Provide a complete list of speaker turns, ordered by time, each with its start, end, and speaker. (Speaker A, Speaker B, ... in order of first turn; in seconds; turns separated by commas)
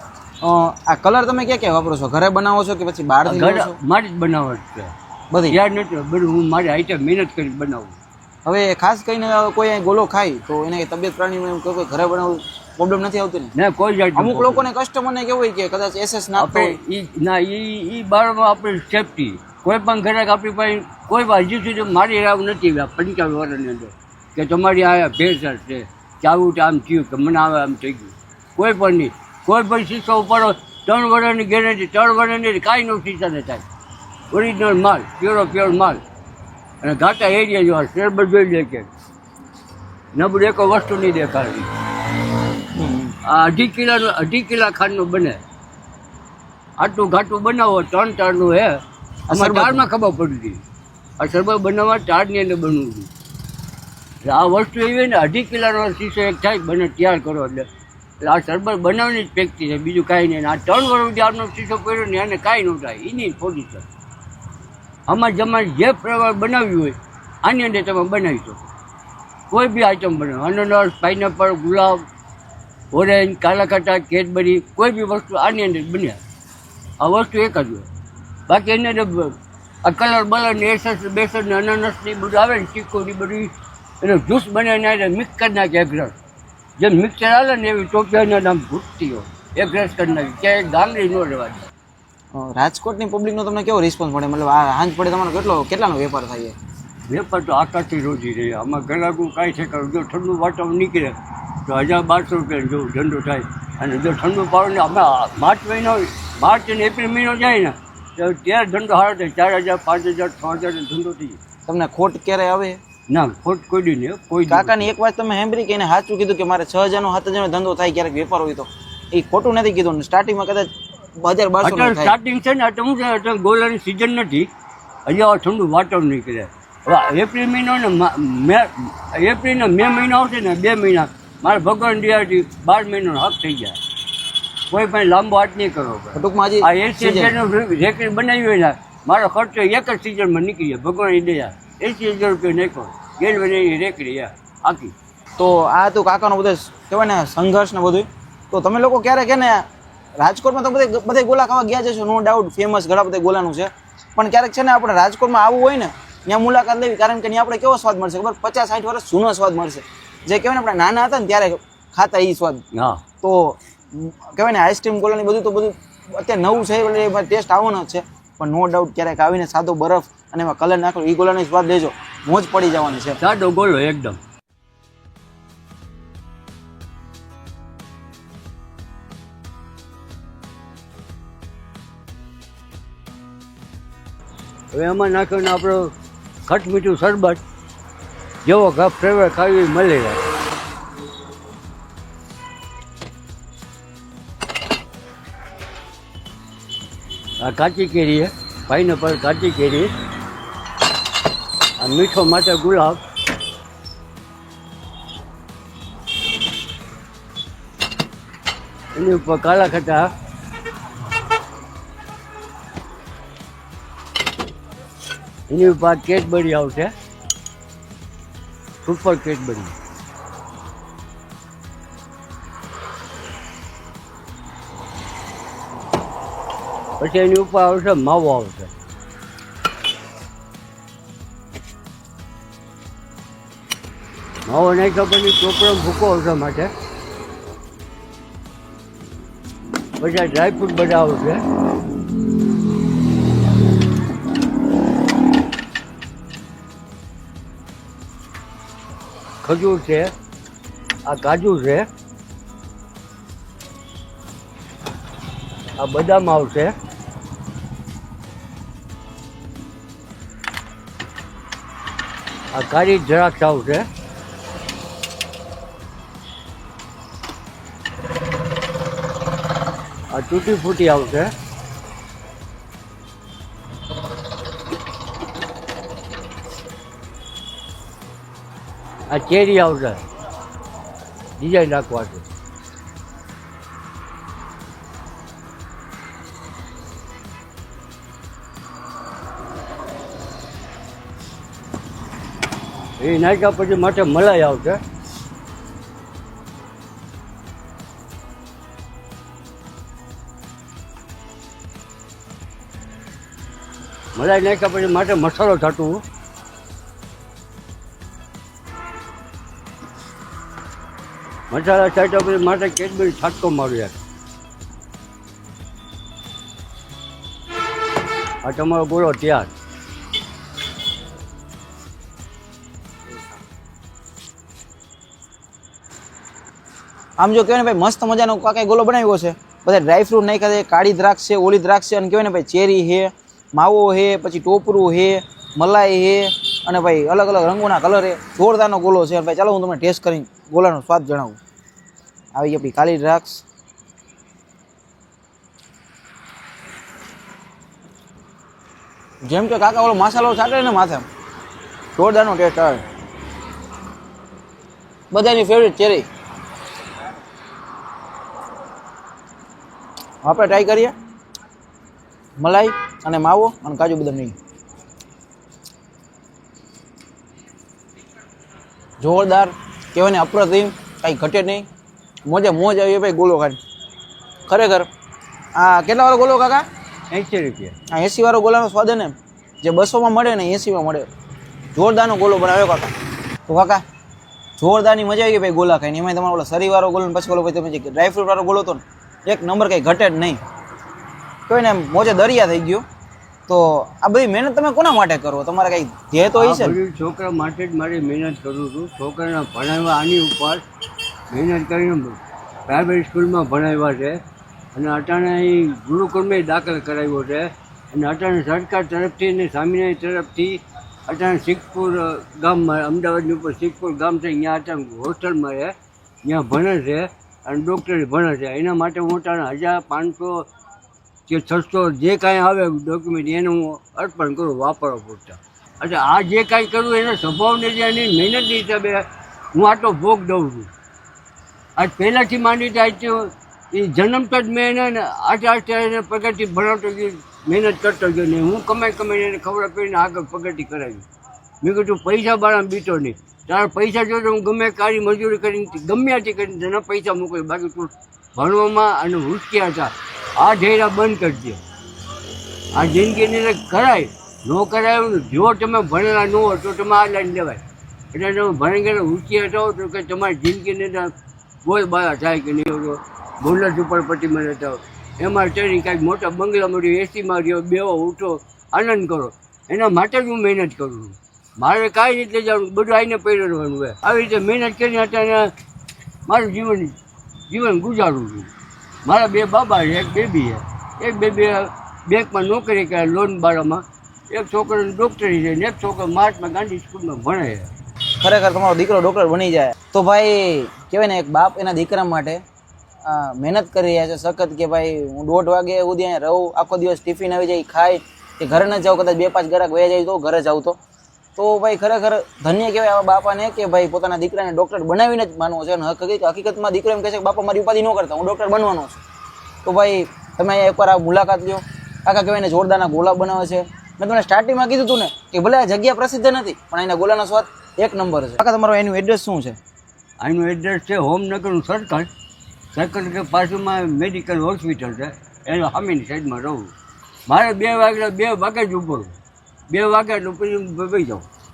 Speaker A: 0.4-3.8, Speaker B: 3.2-4.9, Speaker A: 5.3-5.6, Speaker B: 5.5-8.0, Speaker A: 8.4-13.5, Speaker B: 13.5-14.7, Speaker A: 14.2-16.8, Speaker B: 16.4-33.6, Speaker B: 34.3-36.0, Speaker B: 36.8-38.9, Speaker B: 40.1-41.7, Speaker A: 42.7-43.1, Speaker B: 43.2-45.4, Speaker B: 46.8-50.6, Speaker A: 49.3-49.9, Speaker B: 51.2-53.1, Speaker B: 54.2-57.7, Speaker B: 58.2-63.9, Speaker B: 65.1-68.7, Speaker B: 69.5-72.0, Speaker B: 72.9-76.2, Speaker B: 77.0-77.9, Speaker B: 78.5-86.1, Speaker B: 86.8-91.7, Speaker A: 92.3-96.5, Speaker B: 97.1-101.1, Speaker B: 101.7-111.4, Speaker A: 111.7-112.8, Speaker B: 113.1-114.9, Speaker A: 114.5-120.7, Speaker A: 121.2-122.1, Speaker B: 121.6-124.5, Speaker B: 125.0-133.8, Speaker B: 134.7-144.9, Speaker A: 136.1-137.3, Speaker A: 145.4-149.6, Speaker A: 150.2-162.6, Speaker B: 162.7-163.0, Speaker A: 163.2-173.2, Speaker B: 173.2-174.2, Speaker B: 184.7-185.9, Speaker B: 186.5-187.4, Speaker B: 188.4-190.2, Speaker B: 197.4-199.9, Speaker B: 201.8-203.0, Speaker B: 208.9-210.1, Speaker B: 215.5-216.9, Speaker B: 218.8-219.7, Speaker B: 227.0-228.7, Speaker B: 234.5-236.7, Speaker B: 240.0-241.4, Speaker B: 249.4-250.1, Speaker B: 251.1-251.9, Speaker B: 255.8-256.7, Speaker B: 262.5-263.9, Speaker B: 270.1-271.3, Speaker B: 279.1-280.0, Speaker B: 281.4-282.2, Speaker B: 293.0-294.8, Speaker B: 304.1-306.0, Speaker B: 311.5-313.9, Speaker B: 318.4-319.5, Speaker A: 327.2-341.4, Speaker A: 342.3-343.4, Speaker A: 349.3-351.1, Speaker A: 351.9-352.8, Speaker A: 355.1-356.1, Speaker A: 360.2-360.9, Speaker A: 362.4-364.3, Speaker A: 369.0-371.7, Speaker A: 372.2-373.6, Speaker A: 374.5-374.9, Speaker A: 375.6-376.6, Speaker B: 377.1-377.7, Speaker A: 377.9-381.1, Speaker A: 381.7-382.9, Speaker A: 383.5-383.8, Speaker A: 384.6-390.4, Speaker A: 391.5-392.8, Speaker A: 393.5-396.8, Speaker B: 396.4-400.6, Speaker B: 401.3-404.2, Speaker B: 404.7-415.7, Speaker B: 416.2-420.4, Speaker B: 421.3-430.7, Speaker B: 431.8-441.0, Speaker B: 441.6-451.6, Speaker B: 452.7-457.6, Speaker B: 458.1-461.1, Speaker B: 461.6-475.5, Speaker B: 476.2-476.9, Speaker B: 477.5-478.5, Speaker B: 479.0-487.7, Speaker A: 488.2-492.4, Speaker A: 493.0-500.8, Speaker A: 501.4-509.0, Speaker A: 509.6-519.6, Speaker B: 520.2-522.1, Speaker B: 522.7-526.7, Speaker B: 527.3-529.1, Speaker B: 529.7-531.2